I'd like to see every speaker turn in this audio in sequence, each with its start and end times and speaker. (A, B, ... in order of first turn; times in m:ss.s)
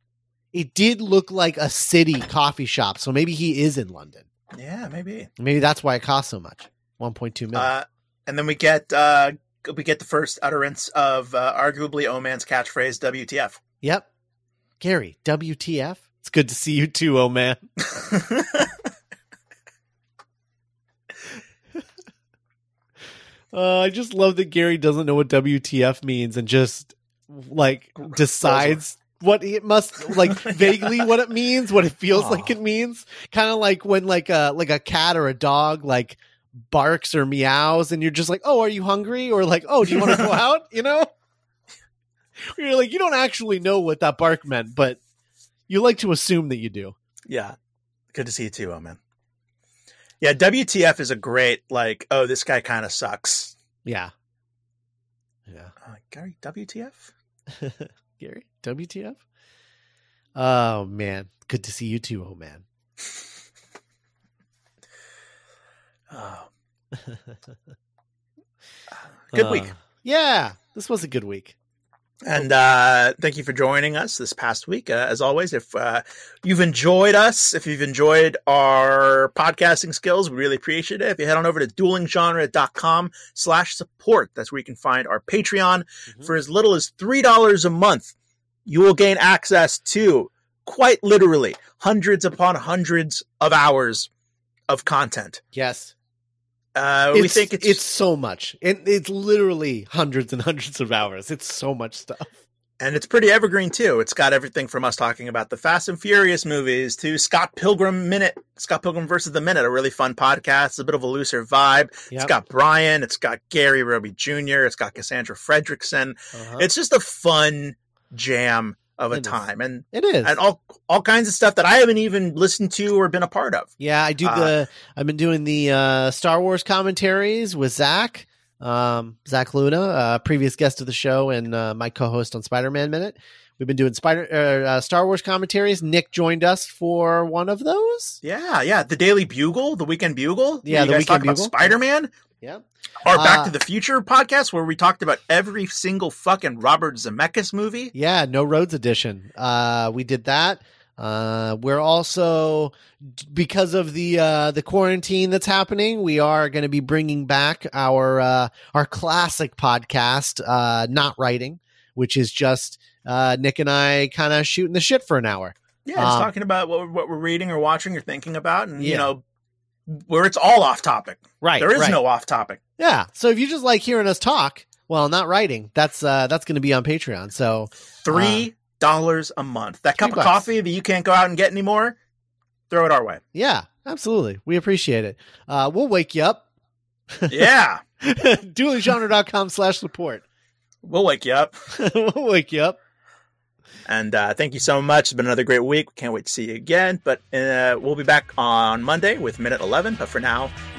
0:00.5-0:04.3 A
0:04.5-0:05.3 B
0:05.4-0:07.7 A
0:07.5-0:13.6 B
0:13.8-0:14.1 A
0:14.8-0:17.7 A
0:17.8-0:18.7 B
0:23.5-0:41.1 A
0:28.4-0:28.8 B
0:30.1-0:31.1 B
0:32.1-0:32.6 B
0:39.9-0:40.3 B
0:42.5-0:45.0 A
0:45.7-0:46.9 A
0:47.3-0:47.5 B
0:48.1-0:49.0 B
0:50.2-0:53.5 B
0:53.8-0:54.1 A
0:55.5-0:55.7 A
0:55.8-0:57.1 B
0:57.5-0:59.2 A
1:00.4-1:02.6 A
1:06.1-1:06.5 B
1:06.9-1:07.4 A
1:09.2-1:09.7 B
1:09.3-1:11.5 A
1:12.2-1:28.1 B
1:28.6-1:34.1 B
1:34.7-1:35.4 B
1:35.5-1:35.9 A
1:36.7-1:37.8 B
1:37.1-1:42.4 A
1:42.8-2:03.7 B
1:56.3-1:56.7 A
1:59.9-2:00.4 A
2:03.8-2:18.2 A
2:04.2-2:04.5 B
2:18.2-2:22.1 B
2:20.6-2:21.7 A
2:22.4-2:23.5 A
2:23.0-2:27.9 B
2:27.9-2:46.3 A
2:45.8-2:49.2 B
2:48.8-2:49.1 A
2:49.9-2:52.6 B
2:51.4-2:52.0 A
2:52.8-2:58.5 A
2:58.0-3:02.0 B
3:00.0-3:00.4 A
3:02.7-3:03.2 B
3:03.3-3:06.4 A
3:07.3-3:07.8 B
3:08.0-3:10.2 A
3:10.8-3:11.6 B
3:11.7-3:12.8 A
3:13.9-3:20.5 B